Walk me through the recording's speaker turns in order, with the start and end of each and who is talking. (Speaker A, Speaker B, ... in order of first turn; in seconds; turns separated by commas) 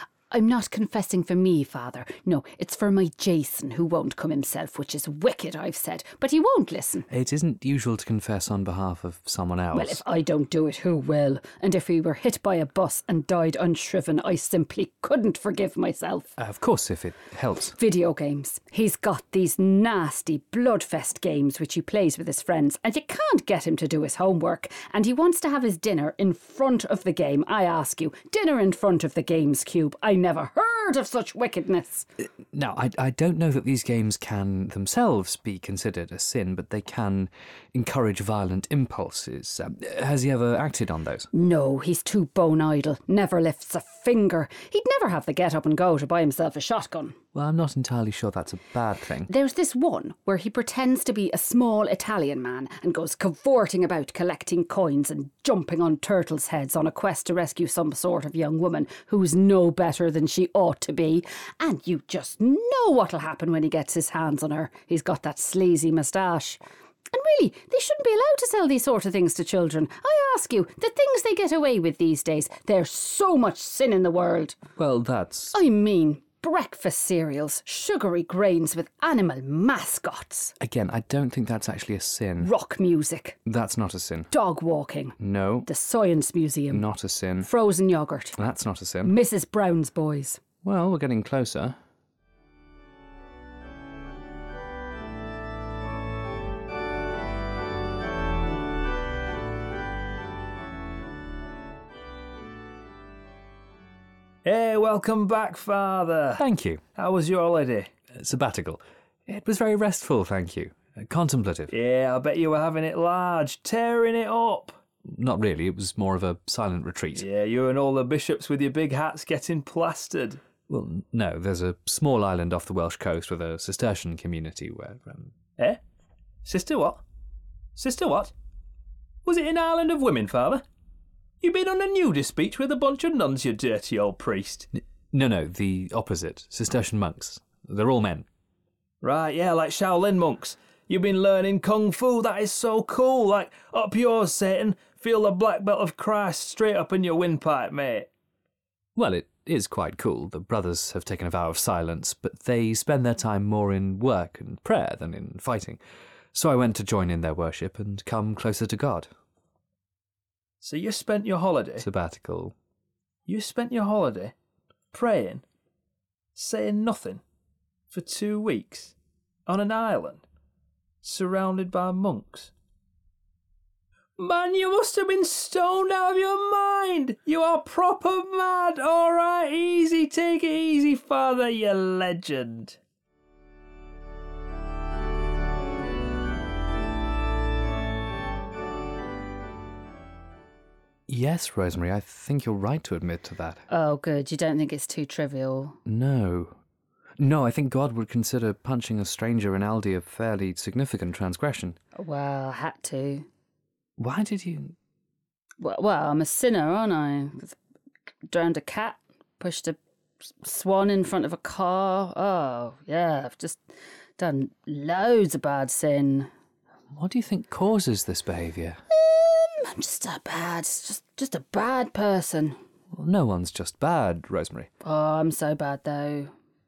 Speaker A: 0.3-7.1, Speaker B: 7.1-10.0, Speaker A: 9.7-16.3, Speaker B: 16.4-17.8, Speaker A: 17.8-32.1, Speaker B: 32.2-41.3, Speaker A: 41.3-47.2, Speaker B: 47.4-49.3, Speaker A: 49.3-74.6, Speaker B: 74.8-75.6, Speaker A: 75.5-80.5, Speaker B: 80.6-82.5, Speaker A: 82.4-83.4, Speaker B: 83.5-84.3, Speaker A: 84.3-86.9, Speaker B: 85.2-85.7, Speaker B: 86.7-87.5, Speaker A: 87.4-88.4, Speaker B: 88.4-89.2, Speaker A: 89.0-90.4, Speaker B: 90.6-91.8, Speaker C: 104.4-106.4, Speaker B: 106.4-106.8, Speaker C: 107.0-107.9, Speaker B: 108.2-111.7, Speaker C: 111.7-114.8, Speaker B: 115.1-117.2, Speaker C: 117.2-120.4, Speaker B: 120.7-125.3, Speaker C: 126.5-127.0, Speaker C: 127.8-128.3, Speaker C: 129.2-130.6, Speaker C: 131.4-134.7, Speaker B: 134.8-138.3, Speaker C: 139.0-148.1, Speaker B: 149.0-155.8, Speaker B: 156.3-159.1, Speaker C: 160.6-161.9, Speaker B: 161.8-162.6, Speaker C: 163.3-164.3, Speaker C: 164.9-165.4, Speaker C: 166.4-167.2, Speaker C: 167.9-168.9, Speaker C: 169.5-170.2, Speaker C: 171.0-172.5, Speaker C: 174.2-182.8, Speaker B: 191.1-193.6, Speaker A: 193.7-195.8, Speaker B: 195.9-196.6, Speaker B: 197.2-201.8, Speaker A: 202.0-203.3, Speaker B: 204.0-204.8, Speaker A: 205.6-207.6, Speaker A: 208.3-213.7, Speaker A: 214.2-216.3, Speaker B: 216.9-218.8, Speaker A: 218.9-222.6, Speaker B: 222.9-224.7, Speaker A: 224.8-226.3